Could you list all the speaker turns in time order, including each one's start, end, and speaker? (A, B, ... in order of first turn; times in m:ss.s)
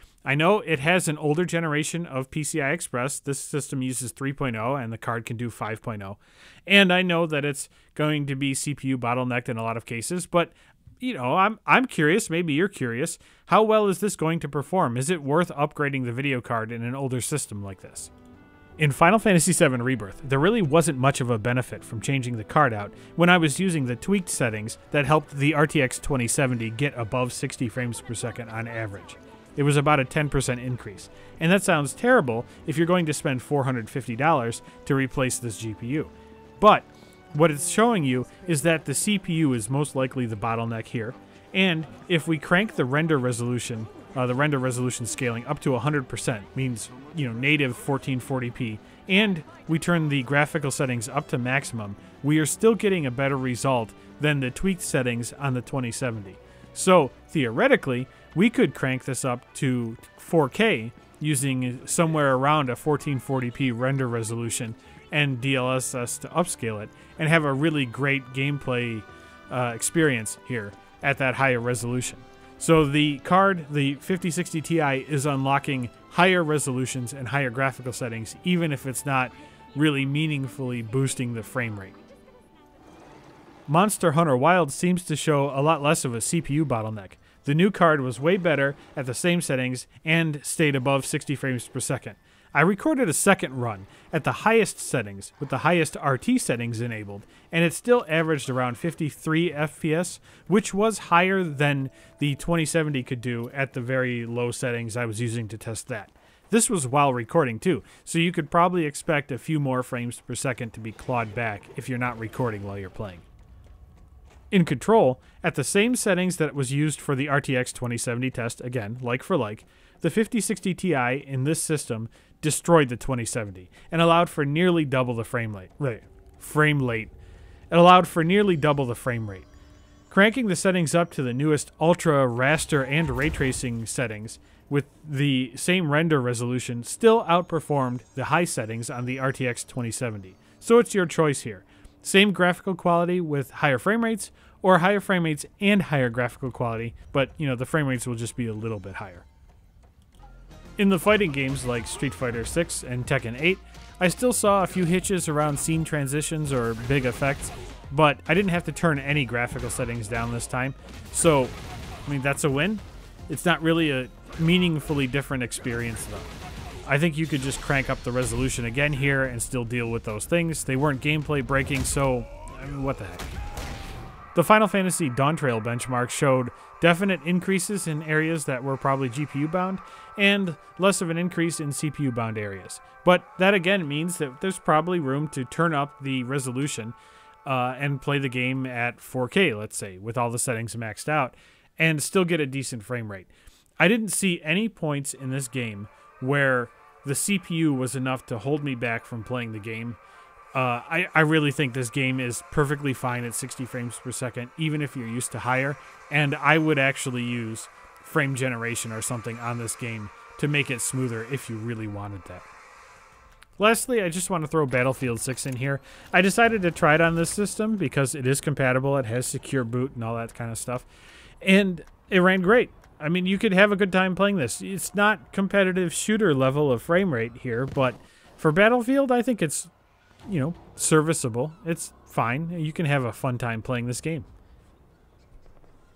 0:00.2-0:18.1 A
0:18.8-1:22.0 A
1:23.7-1:53.2 A
1:54.5-2:07.1 A
2:07.7-2:09.5 A
2:10.1-2:29.2 A
2:30.8-2:53.3 A
2:54.3-3:20.0 A
3:20.5-3:32.4 A
3:33.6-3:40.8 A
3:41.4-3:49.7 A
3:50.2-3:54.3 A